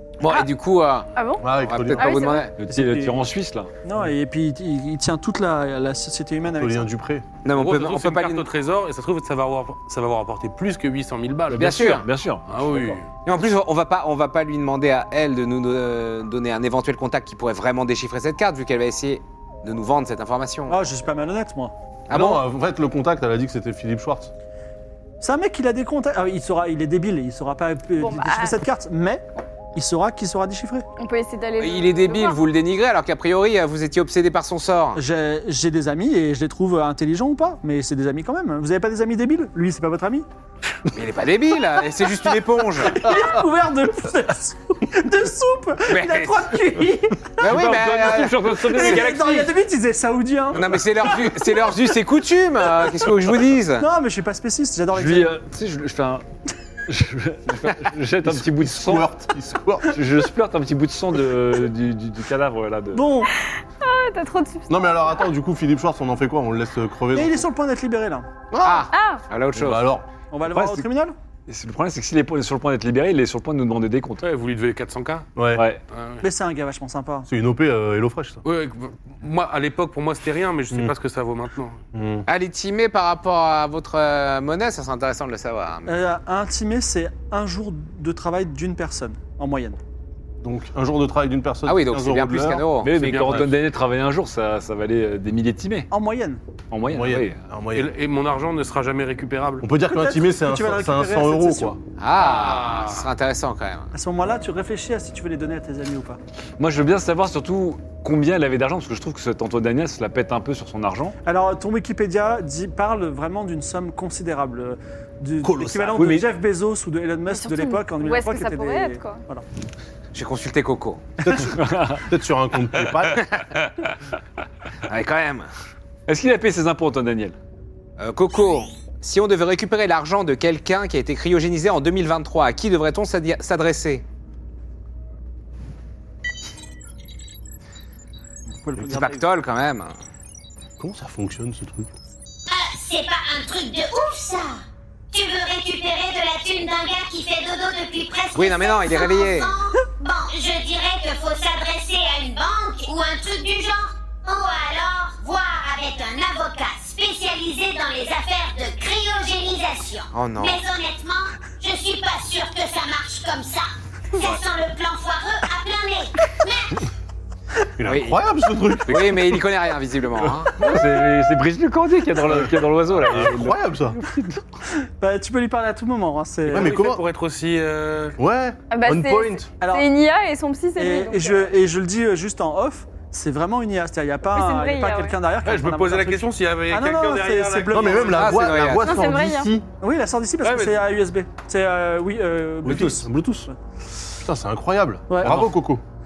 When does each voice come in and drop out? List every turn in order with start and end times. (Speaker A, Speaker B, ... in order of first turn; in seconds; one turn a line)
Speaker A: 0.2-2.5
Speaker B: 1.2-2.5
Speaker C: 1.4-2.2
Speaker D: 2.6-3.7
Speaker E: 2.7-3.2
Speaker E: 3.8-6.9
Speaker C: 6.6-7.3
Speaker A: 7.5-8.5
Speaker F: 7.5-11.9
Speaker D: 11.5-13.0
Speaker A: 11.6-12.1
Speaker F: 12.5-13.1
Speaker A: 13.2-20.9
Speaker E: 20.7-21.7
Speaker A: 22.1-22.4
Speaker C: 22.1-24.3
Speaker E: 25.2-30.9
Speaker B: 28.0-28.6
Speaker B: 31.0-32.5
Speaker A: 31.6-35.0
Speaker E: 35.0-40.3
Speaker A: 40.9-43.0
Speaker E: 42.8-47.4
Speaker C: 43.1-43.4
Speaker A: 45.9-46.6
Speaker A: 47.4-49.0
Speaker D: 47.4-49.5
Speaker E: 48.5-50.8
Speaker A: 50.5-53.9
Speaker E: 53.8-55.4
Speaker D: 54.9-56.2
Speaker D: 56.9-59.1
Speaker C: 58.2-60.0
Speaker D: 59.9-63.0
Speaker E: 62.9-63.3
Speaker B: 63.4-64.9
Speaker C: 64.7-67.5
Speaker E: 67.1-68.3
Speaker C: 68.5-68.8
Speaker A: 68.6-69.9
Speaker B: 68.7-69.2
Speaker C: 69.5-70.1
Speaker E: 70.3-71.2
Speaker D: 70.5-70.8
Speaker D: 71.5-74.2
Speaker F: 74.2-75.3
Speaker C: 75.4-75.7
Speaker D: 75.5-75.8
Speaker F: 75.9-76.2
Speaker E: 76.2-77.3
Speaker C: 77.3-78.4
Speaker F: 78.4-81.8
Speaker C: 81.9-82.3
Speaker A: 82.3-86.0
Speaker E: 85.9-89.8
Speaker C: 90.4-92.7
Speaker A: 91.7-93.1
Speaker D: 92.8-95.9
Speaker F: 92.9-93.5
Speaker E: 95.9-96.4
Speaker D: 96.7-97.4
Speaker C: 96.9-97.9
Speaker F: 97.7-99.7
Speaker C: 99.6-101.8
Speaker E: 99.9-101.8
Speaker A: 102.0-103.9
Speaker F: 102.2-103.0
Speaker E: 103.9-106.2
Speaker D: 106.6-111.2
Speaker E: 111.2-119.4
Speaker C: 115.4-116.2
Speaker D: 116.0-116.3
Speaker B: 117.3-119.2
Speaker A: 120.1-121.0
Speaker C: 121.2-123.2
Speaker D: 121.5-122.0
Speaker A: 123.2-123.5
Speaker A: 124.9-125.5
Speaker D: 126.1-127.3
Speaker A: 128.0-134.0
Speaker E: 138.6-139.3
Speaker A: 138.8-139.9
Speaker C: 140.8-141.9
Speaker G: 142.5-166.8
Speaker A: 148.3-149.5
Speaker A: 160.1-160.6
Speaker C: 167.8-169.4
Speaker A: 167.8-168.2
Speaker A: 168.9-170.7
Speaker D: 170.5-174.4
Speaker C: 172.2-174.0
Speaker E: 174.7-176.8
Speaker F: 176.5-178.2
Speaker C: 176.5-177.0
Speaker C: 178.2-179.5
Speaker B: 178.7-181.5
Speaker E: 179.6-179.9
Speaker E: 180.8-188.2
Speaker B: 184.3-185.2
Speaker F: 185.4-188.3
Speaker C: 187.7-189.7
Speaker A: 188.1-189.0
Speaker B: 188.8-189.5
Speaker E: 189.8-193.6
Speaker F: 190.4-190.8
Speaker C: 192.7-193.5
Speaker C: 194.2-195.8
Speaker E: 195.1-195.4